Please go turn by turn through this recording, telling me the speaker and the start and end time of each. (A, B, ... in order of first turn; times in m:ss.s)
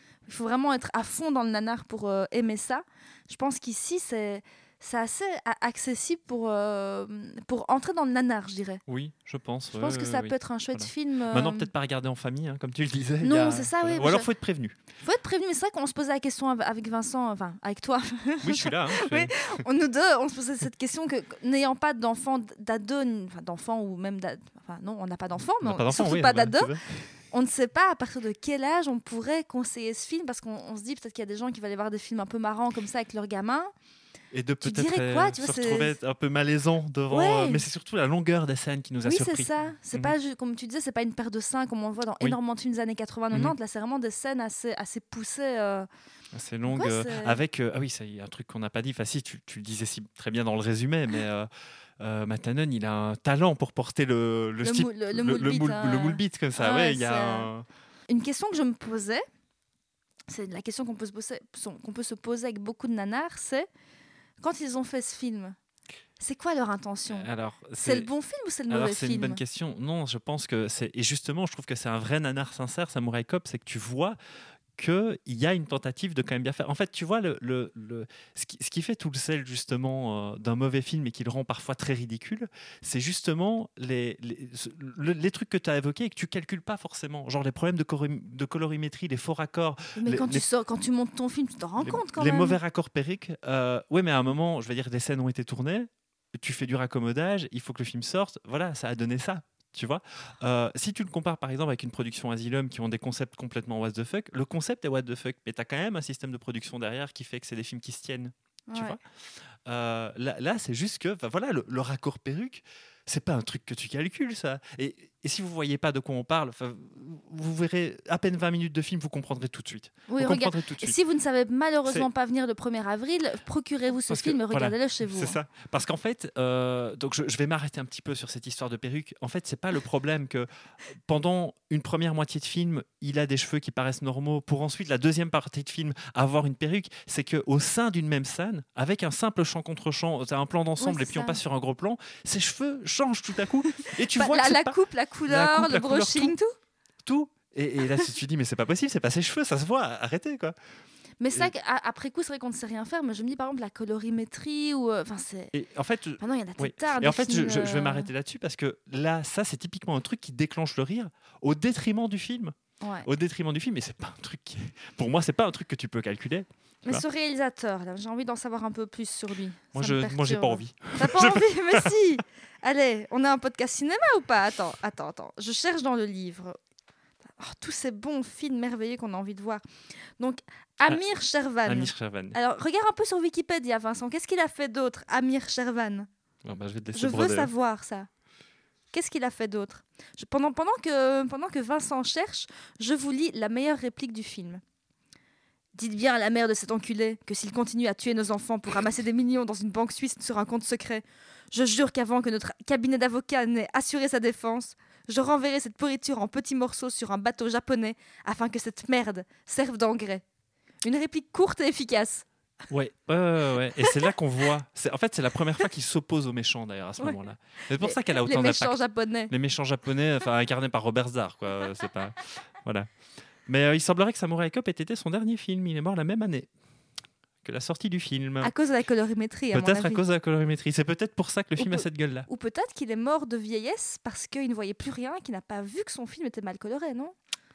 0:00.2-0:08.8 A
0:08.9-0:14.7 B
0:09.7-0:11.7 A
0:13.2-0:14.3 A
0:15.0-0:26.7 A
0:18.4-0:19.6 B
0:25.6-0:26.8 B
0:27.3-0:33.7 A
0:34.3-0:40.1 B
0:34.6-0:35.9 A
0:37.1-0:37.6 A
0:39.0-0:45.9 A
0:46.3-0:51.5 B
0:46.6-0:47.4 A
0:52.0-0:57.6 B
0:54.6-0:57.5 A
0:58.1-0:59.2 A
1:00.3-1:03.6 A
1:04.4-1:05.6 A
1:06.2-1:09.4 A
1:07.1-1:08.1 B
1:08.7-1:14.2 B
1:14.8-1:30.4 B
1:30.0-1:32.6 A
1:31.8-1:49.0 B
1:48.7-1:49.0 A
1:49.7-2:01.0 B
2:00.1-2:05.4 A
2:04.1-2:10.5 B
2:11.1-2:24.8 B
2:20.8-2:21.4 A
2:23.9-2:26.5 A
2:25.3-2:26.4 B
2:27.0-2:30.6 B
2:31.2-2:35.5 A
2:35.5-2:42.5 B
2:36.2-2:38.1 A
2:42.8-2:43.1 A
2:43.0-2:47.0 B
2:46.8-2:56.6 A
2:49.7-2:51.9 B
2:57.4-2:59.6 A
3:00.2-3:06.1 A
3:01.6-3:02.4 B
3:06.4-3:07.5 B
3:06.9-3:08.1 A
3:08.9-3:14.6 A
3:15.7-3:30.2 A
3:30.8-3:32.2 A
3:32.7-3:42.9 B
3:37.8-3:39.3 A
3:43.5-3:46.5 B
3:47.4-3:48.5 B
3:48.4-3:50.0 A
3:49.5-3:52.3 B
3:51.6-3:57.1 A